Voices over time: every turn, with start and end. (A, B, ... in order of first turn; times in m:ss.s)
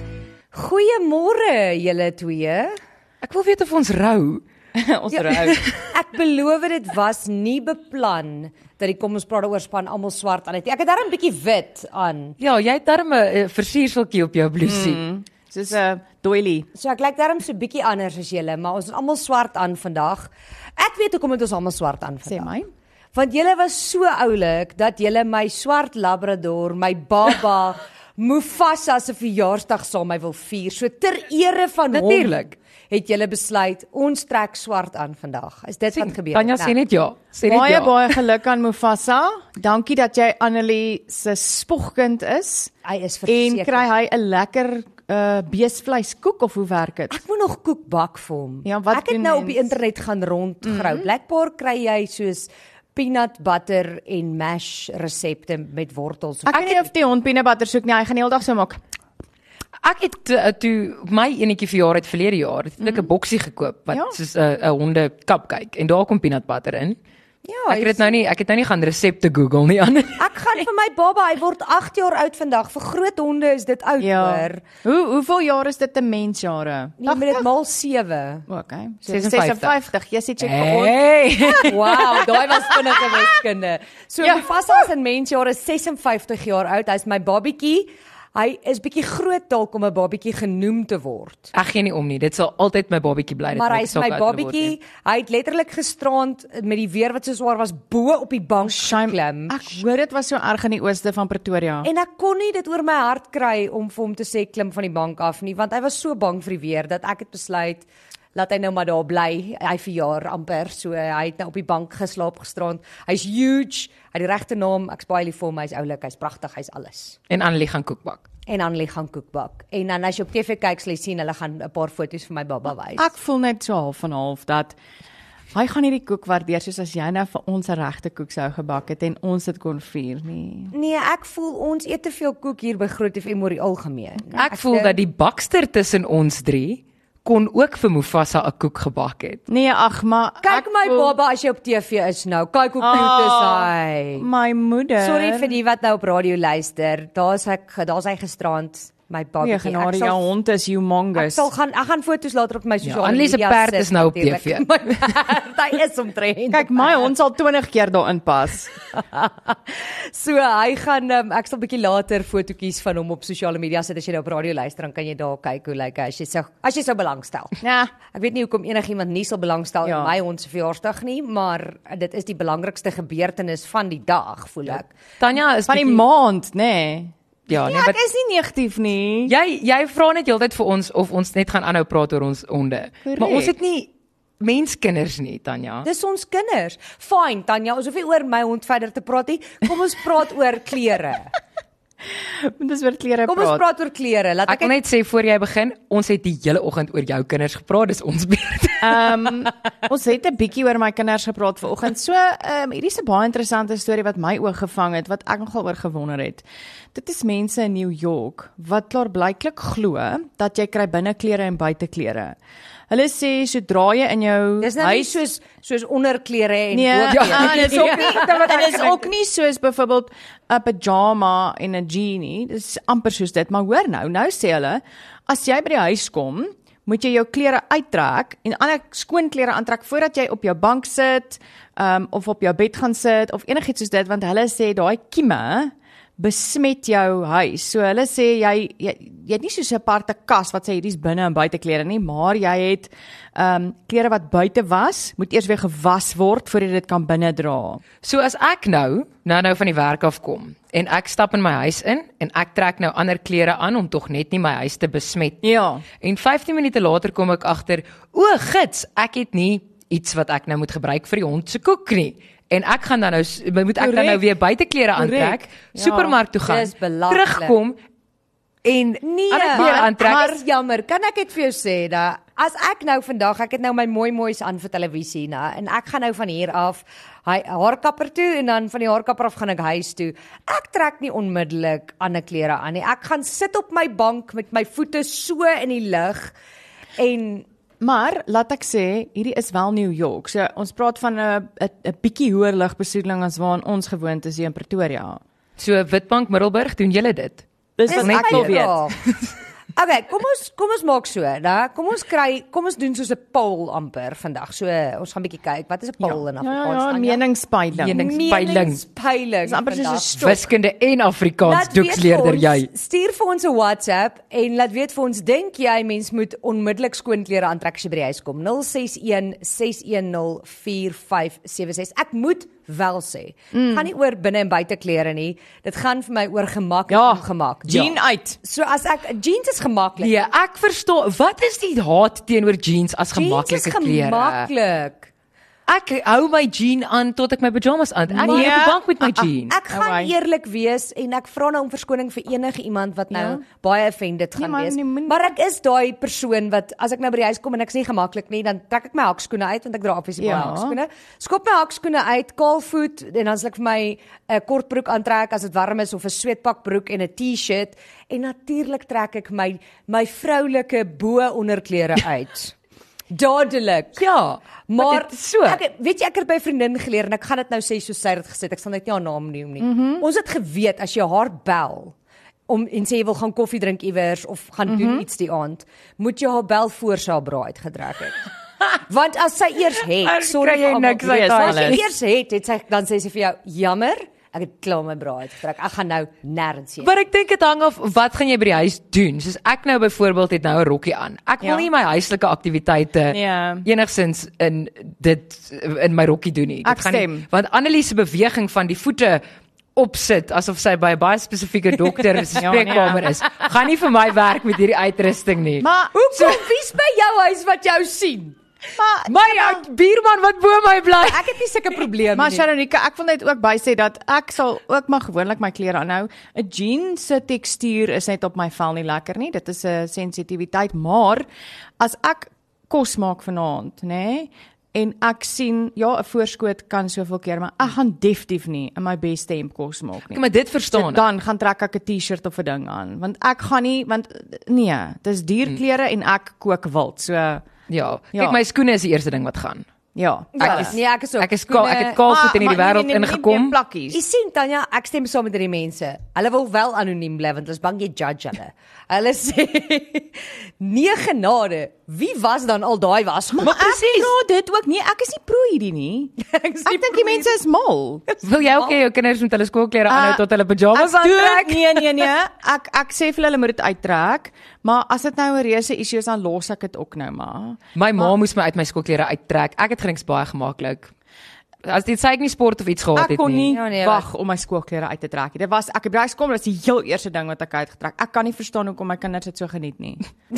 0:00.5-0:02.8 A
0:03.2-0:04.4 B
0:04.7-0:05.7 C
0:05.3-0:05.8 B
0:05.9-0:12.4 A
0:12.4-0:15.0 B
0:14.6-0:16.7 C
0:16.7-0:22.5 A
0:22.2-0:22.7 C
0:23.1-0:32.4 A
0:31.9-0:32.5 B
0:32.9-0:36.8 A
0:35.9-0:38.2 B
0:37.5-0:42.7 C
0:42.8-0:43.9 A
0:43.3-0:47.2 C
0:47.1-0:56.9 A
0:48.6-0:49.7 C
0:50.6-0:51.1 C
0:56.4-0:58.8 C
0:59.8-1:07.0 B
1:03.9-1:04.2 C
1:07.4-1:08.1 A
1:07.7-1:10.2 B
1:10.2-1:14.6 A
1:14.0-1:17.5 C
1:17.0-1:18.4 A
1:18.5-1:23.2 C
1:19.1-1:19.7 B
1:20.4-1:22.3 B
1:21.7-1:31.5 A
1:24.2-1:24.8 C
1:31.5-1:34.7 B
1:33.5-1:39.8 A
1:38.6-1:41.9 C
1:41.8-1:57.2 A
1:57.3-1:58.2 B
1:58.5-2:03.1 A
2:03.0-2:04.8 C
2:05.5-2:10.7 C
2:10.7-2:15.0 A
2:14.3-2:19.4 B
2:19.5-2:21.1 C
2:20.4-2:24.2 A
2:22.8-2:25.5 C
2:25.0-2:30.2 A
2:29.4-2:31.5 C
2:31.2-2:37.1 A
2:32.8-2:35.1 B
2:36.5-2:38.7 C
2:38.9-2:54.9 A
2:47.6-2:47.9 C
2:49.8-2:50.1 C
2:55.2-2:56.0 B
2:55.7-2:59.3 C
2:57.5-2:58.0 B
2:59.3-3:05.8 B
3:03.0-3:03.5 C
3:05.8-3:11.3 A
3:12.2-3:13.6 C
3:13.2-3:14.7 A
3:14.5-3:19.0 B
3:18.8-3:32.4 C
3:32.9-3:35.1 C
3:34.6-3:38.9 A
3:36.7-4:07.8 C
3:37.1-3:39.0 B
4:08.0-4:15.4 B
4:15.4-4:15.8 C
4:16.0-4:27.8 B
4:23.8-4:24.2 C
4:25.0-4:26.1 C
4:26.4-4:27.6 A
4:28.6-4:30.3 B
4:29.0-4:46.3 A
4:29.5-4:30.4 C
4:47.0-4:47.4 A
4:47.8-4:55.2 C
4:55.6-4:57.4 B
4:57.8-4:58.8 C
4:57.9-4:59.0 A
4:58.0-4:59.1 B
4:59.8-5:07.2 A
5:06.0-5:08.1 C
5:07.7-5:08.8 B
5:07.9-5:10.0 A
5:09.4-5:10.5 C
5:10.2-5:12.7 B
5:11.4-5:30.1 A
5:23.5-5:23.9 C
5:26.9-5:28.4 C
5:30.0-5:34.5 B
5:33.1-5:35.1 A
5:35.7-5:39.5 B
5:38.1-5:40.1 C
5:38.2-5:38.5 A
5:39.5-6:02.5 A
5:43.1-5:43.4 C
5:44.4-5:45.3 C
5:50.2-5:50.8 C
6:03.1-6:04.0 A
6:04.0-6:05.6 B
6:04.7-6:11.9 A
6:09.6-6:10.0 C
6:12.5-6:18.2 A
6:14.7-6:15.0 C
6:18.8-6:26.9 A
6:20.0-6:21.9 B
6:21.0-6:21.8 C
6:26.8-6:39.2 B
6:31.4-6:31.7 C
6:33.1-6:33.6 C
6:36.6-6:37.2 C
6:39.8-6:45.7 B
6:42.3-6:43.2 C
6:45.6-6:46.4 C
6:45.9-6:48.4 A
6:48.8-6:49.6 C
6:49.0-6:51.3 B
6:51.0-6:52.4 A
6:52.1-7:01.2 C
7:01.8-7:17.5 C
7:10.1-7:11.0 B
7:17.7-7:19.6 B
7:19.9-7:20.7 C
7:20.4-7:22.0 A
7:20.4-7:23.6 B
7:22.0-7:24.0 C
7:23.9-7:33.8 A
7:33.3-7:38.0 C
7:33.5-7:34.1 B
7:36.2-7:37.3 A
7:38.1-7:38.7 A
7:38.2-7:41.6 B
7:39.9-7:48.1 C
7:47.7-7:50.9 B
7:51.6-7:53.5 B
7:52.9-8:00.0 C
7:53.5-7:54.1 A